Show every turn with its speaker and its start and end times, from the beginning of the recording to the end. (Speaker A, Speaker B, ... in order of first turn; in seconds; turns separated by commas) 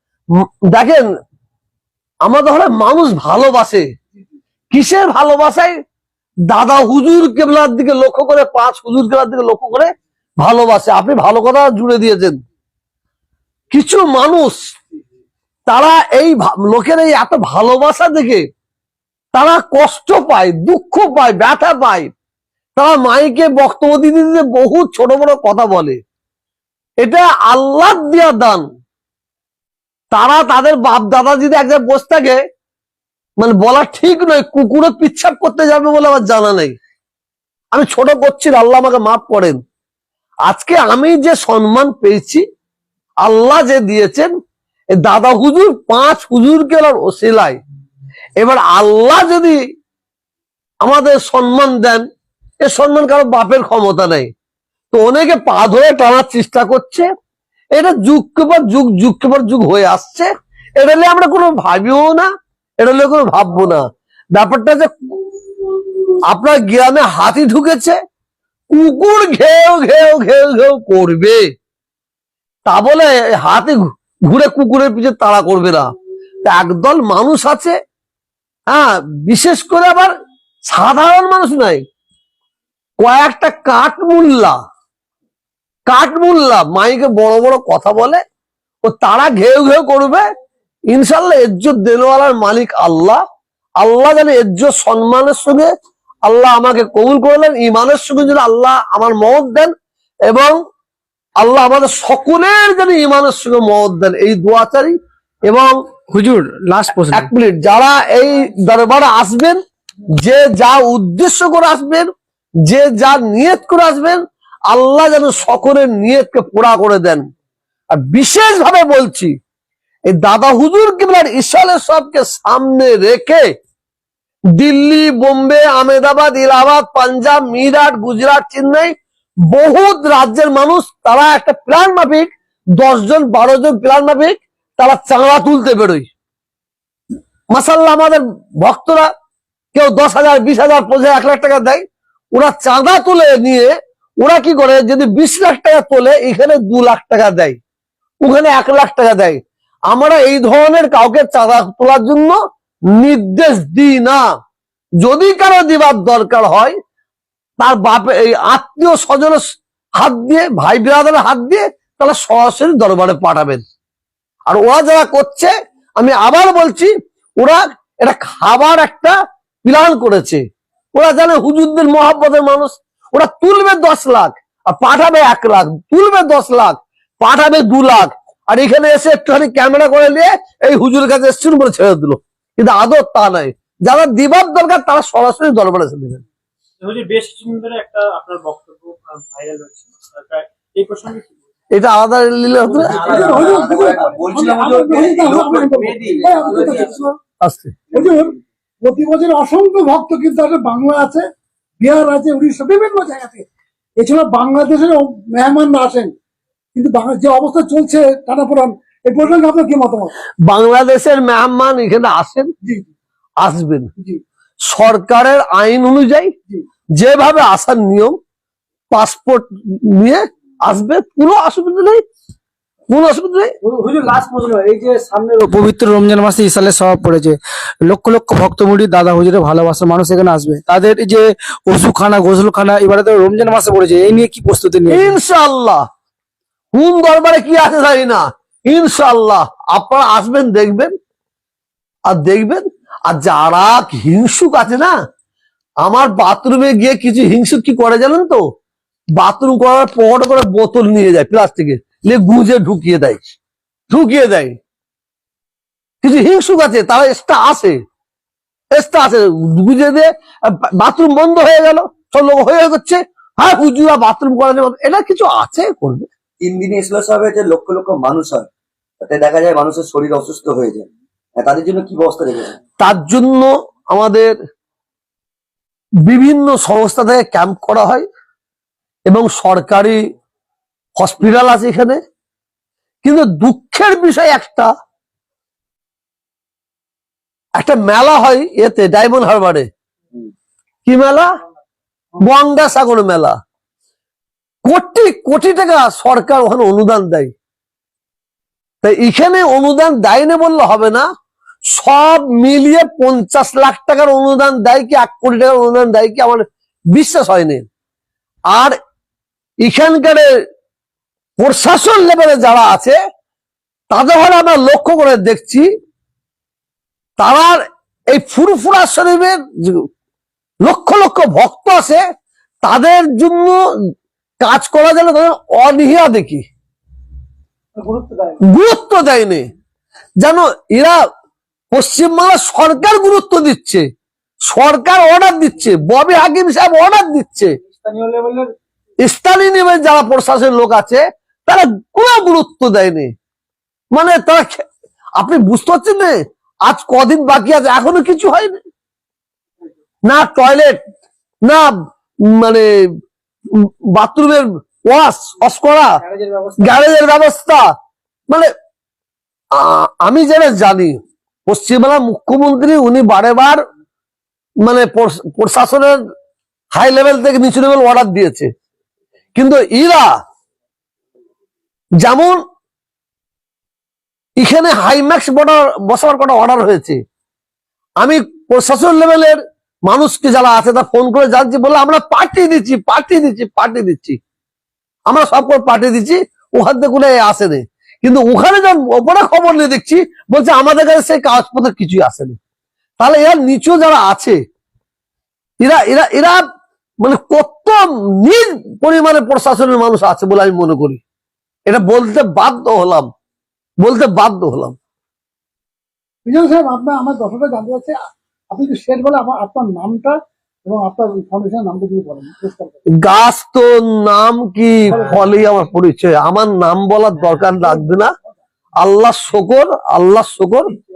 Speaker A: 0.7-1.1, Speaker A: 2.2-3.8, Speaker A: 4.7-5.8, Speaker A: 6.5-12.4, Speaker A: 13.7-14.8, Speaker A: 15.7-18.4, Speaker A: 19.3-22.1, Speaker A: 22.8-26.0, Speaker A: 27.0-28.6, Speaker A: 30.1-32.4, Speaker A: 33.4-36.8, Speaker A: 37.7-39.6, Speaker A: 40.5-42.4, Speaker A: 43.2-44.3, Speaker A: 45.0-47.6, Speaker A: 48.4-49.6, Speaker A: 50.8-52.1, Speaker A: 52.6-54.3, Speaker A: 54.9-57.0, Speaker A: 57.7-62.3, Speaker A: 62.8-64.9, Speaker A: 66.2-68.0, Speaker A: 68.7-71.4, Speaker A: 72.7-75.9, Speaker A: 76.4-77.8, Speaker A: 78.7-80.1, Speaker A: 80.7-81.8, Speaker A: 83.0-84.5, Speaker A: 85.9-88.2, Speaker A: 88.8-90.2, Speaker A: 90.9-93.2, Speaker A: 93.8-95.7, Speaker A: 96.2-99.7, Speaker A: 100.3-100.5, Speaker A: 101.4-104.9, Speaker A: 105.5-105.8, Speaker B: 106.1-107.3, Speaker A: 107.1-109.6, Speaker A: 110.2-112.1, Speaker A: 112.6-117.2, Speaker A: 117.9-119.3, Speaker A: 120.1-123.4, Speaker A: 124.5-128.9, Speaker A: 129.5-136.1, Speaker A: 137.5-139.1, Speaker A: 139.7-141.8, Speaker A: 142.3-147.6, Speaker A: 148.2-149.4, Speaker A: 149.9-152.3, Speaker A: 153.0-154.2, Speaker A: 155.0-156.8, Speaker A: 157.6-159.4, Speaker A: 160.0-163.6, Speaker A: 164.5-170.4, Speaker A: 170.9-186.2, Speaker C: 186.8-191.3, Speaker A: 191.7-193.2, Speaker D: 192.7-197.0, Speaker E: 192.9-197.1, Speaker A: 197.4-197.8, Speaker E: 197.9-201.2, Speaker E: 201.8-203.5, Speaker E: 204.0-206.1, Speaker E: 206.8-210.1, Speaker A: 210.5-212.5, Speaker A: 213.4-213.9, Speaker A: 214.7-216.3, Speaker A: 217.0-218.2, Speaker A: 218.9-222.0, Speaker A: 222.9-223.5, Speaker B: 223.6-235.2, Speaker A: 234.9-235.8, Speaker A: 236.7-240.9, Speaker A: 242.1-244.9, Speaker A: 245.8-248.4, Speaker A: 249.2-253.3, Speaker A: 253.9-254.6, Speaker A: 256.0-257.8, Speaker A: 258.8-266.1, Speaker D: 266.4-268.5, Speaker D: 269.0-272.6, Speaker A: 272.8-274.3, Speaker A: 276.0-278.1, Speaker A: 279.1-280.0, Speaker A: 281.0-282.0, Speaker A: 283.0-284.7, Speaker A: 287.6-289.7, Speaker A: 290.9-291.2, Speaker A: 292.2-293.3, Speaker A: 294.6-297.3, Speaker A: 298.8-301.0, Speaker A: 301.7-307.6, Speaker A: 308.5-308.8, Speaker A: 309.6-310.3, Speaker A: 311.4-313.0, Speaker A: 313.9-315.7, Speaker A: 317.2-319.9, Speaker A: 320.6-322.0, Speaker A: 322.6-323.6, Speaker A: 324.4-326.4, Speaker B: 327.8-328.4, Speaker A: 328.4-329.4, Speaker A: 330.2-331.0, Speaker A: 331.7-333.8, Speaker A: 334.5-337.6, Speaker B: 337.6-338.5, Speaker A: 339.0-343.1, Speaker A: 343.9-344.6, Speaker A: 345.2-348.6, Speaker A: 350.1-350.8, Speaker A: 352.3-352.7, Speaker A: 353.5-356.0, Speaker B: 356.0-356.8, Speaker A: 356.6-357.6, Speaker A: 359.6-363.6, Speaker A: 364.6-366.0, Speaker A: 366.8-368.5, Speaker A: 369.3-370.1, Speaker A: 372.0-372.4, Speaker A: 374.4-377.0, Speaker A: 378.0-384.2, Speaker A: 385.1-392.3, Speaker A: 393.0-394.4, Speaker A: 395.6-396.4, Speaker A: 397.0-401.0, Speaker A: 401.7-403.1, Speaker A: 403.8-404.8, Speaker E: 406.2-408.0, Speaker E: 408.5-412.8, Speaker A: 413.0-418.1, Speaker A: 418.8-420.7